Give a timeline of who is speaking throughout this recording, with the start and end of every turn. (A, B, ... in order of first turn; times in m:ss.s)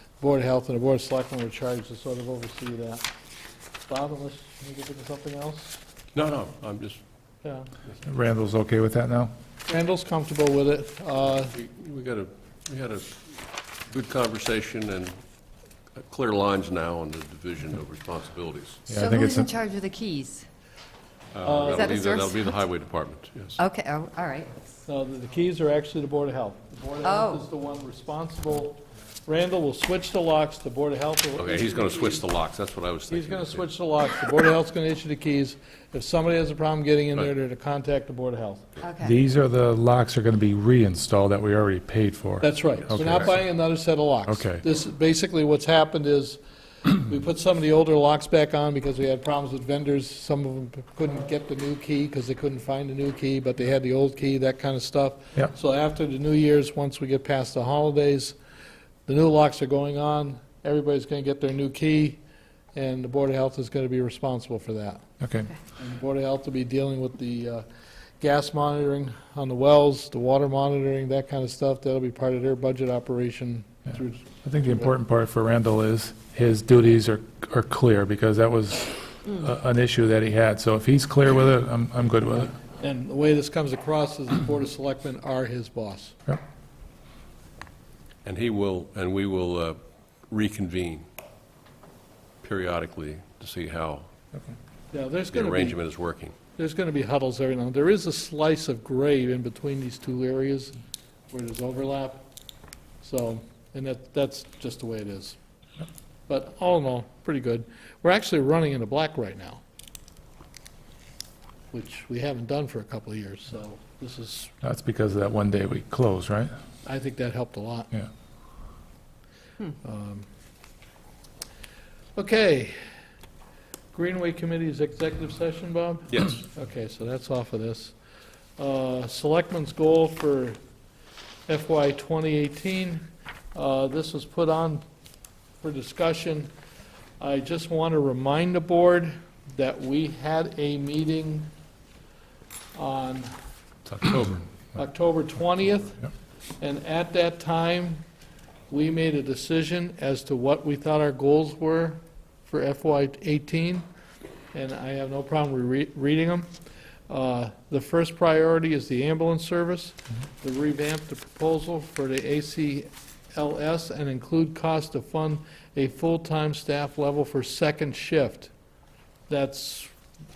0:00.2-0:03.1 A
0:03.9-0:05.8 A
0:06.2-0:07.0 B
0:07.4-0:07.9 A
0:08.0-0:09.3 C
0:09.7-0:11.6 A
0:11.5-0:13.2 B
0:13.9-0:15.2 B
0:16.0-0:18.9 B
0:18.9-0:19.5 C
0:18.9-0:20.5 D
0:21.3-0:23.6 B
0:21.4-0:22.0 A
0:21.7-0:22.5 D
0:23.6-0:24.6 D
0:24.9-0:32.3 A
0:27.0-0:27.5 D
0:31.4-0:33.7 B
0:33.1-0:38.7 A
0:38.8-0:39.2 D
0:39.0-0:43.4 C
0:42.4-0:58.4 A
0:44.3-0:44.6 C
0:59.1-1:02.2 A
1:02.7-1:05.0 A
1:05.2-1:05.5 C
1:05.8-1:07.6 A
1:08.2-1:14.9 A
1:14.4-1:22.6 C
1:22.8-1:26.2 A
1:28.2-1:29.8 B
1:30.3-1:31.0 B
1:32.4-1:34.1 B
1:34.9-1:35.8 A
1:35.3-1:36.3 B
1:36.6-1:40.8 A
1:41.3-1:42.2 A
1:43.0-1:45.4 A
1:46.3-1:49.6 A
1:51.7-1:54.5 A
1:54.6-1:56.5 C
1:56.8-1:57.9 A
1:59.8-2:00.3 A
2:02.2-2:02.8 A
2:03.9-2:08.0 A
2:08.6-2:10.6 A
2:11.5-2:13.0 A
2:13.5-2:14.8 A
2:15.6-2:16.5 A
2:17.2-2:21.5 A
2:22.7-2:23.4 A
2:23.9-2:24.4 C
2:24.1-2:26.0 A
2:26.6-2:28.0 A
2:28.7-2:33.9 A
2:34.5-2:36.5 A
2:37.1-2:48.5 A
2:49.3-2:49.9 A